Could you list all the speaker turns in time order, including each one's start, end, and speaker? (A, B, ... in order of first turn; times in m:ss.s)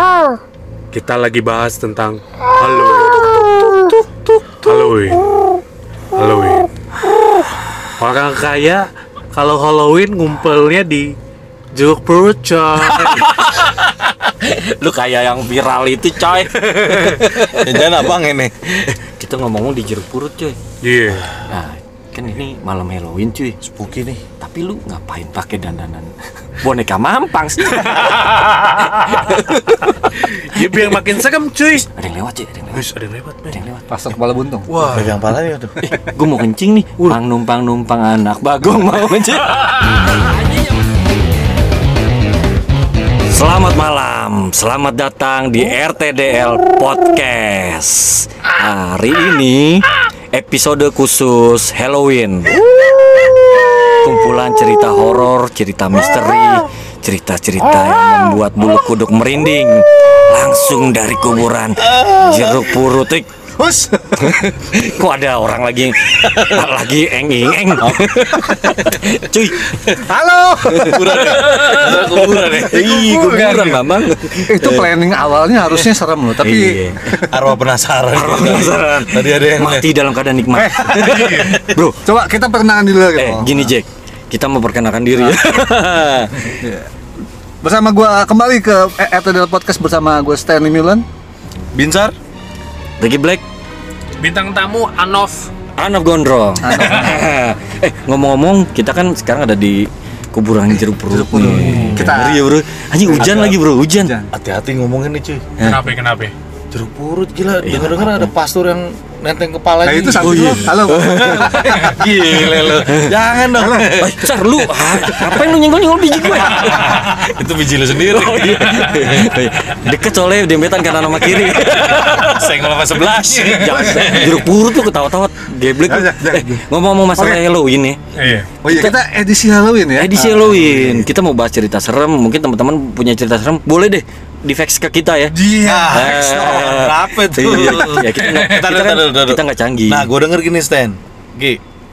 0:00.9-0:03.9 A
0:04.5-0:05.3 A
0:06.1-0:06.7 A
0:08.0-0:11.2 A
0:11.7-0:13.4 A
0:13.1-0:18.0 B
0:17.5-0:18.5 C
0:18.7-0:20.6 B
0:20.8-0:21.4 A
0:21.5-0:23.6 B
0:23.6-0:24.2 C
0:24.4-0:28.2 B
0:28.1-0:28.9 A
0:28.8-0:30.6 B
0:30.1-0:31.9 A
0:31.9-0:32.8 B
0:32.7-0:33.6 A
0:33.5-0:33.8 B
0:33.9-0:34.9 D
0:34.7-0:35.2 A
0:34.9-0:35.8 C
0:35.8-0:40.6 B
0:39.5-0:39.9 A
0:43.3-0:52.6 B
0:53.9-1:03.3 B
0:56.0-0:56.5 C
1:01.8-1:02.8 C
1:03.6-1:04.2 D
1:04.1-1:09.9 B
1:06.2-1:06.6 C
1:07.8-1:09.0 C
1:09.9-1:11.4 D
1:10.7-1:14.9 B
1:10.7-1:13.7 C
1:13.1-1:13.7 A
1:14.4-1:17.3 D
1:16.4-1:17.0 B
1:17.2-1:19.9 C
1:18.1-1:22.0 B
1:20.5-1:21.4 D
1:20.8-1:21.6 A
1:22.0-1:23.7 D
1:23.2-1:26.5 B
1:26.6-1:26.9 D
1:27.6-1:31.0 D
1:31.7-1:32.1 C
1:33.0-1:33.4 B
1:34.2-1:35.5 A
1:35.8-1:44.1 B
1:36.6-1:37.3 D
1:36.7-1:37.2 A
1:41.1-1:42.4 D
1:41.4-1:42.1 C
1:43.0-1:44.3 D
1:43.2-1:43.5 C
1:44.3-1:45.7 C
1:45.6-1:46.3 A
1:46.7-1:55.4 C
1:47.6-1:48.3 B
1:49.8-1:52.0 D
1:50.2-1:51.5 B
1:52.8-1:53.1 B
1:53.6-1:53.9 D
1:54.0-1:57.2 B
1:56.3-1:59.3 C
1:57.9-2:02.4 B
2:00.9-2:04.5 C
2:03.5-2:08.0 B
2:05.8-2:06.6 D
2:07.1-2:07.4 D
2:08.2-2:08.5 A
2:08.6-2:10.9 D
2:08.6-2:09.0 B
2:10.0-2:15.3 B
2:15.3-2:16.1 A
2:15.6-2:21.6 C
2:15.9-2:20.1 B
2:17.9-2:18.5 A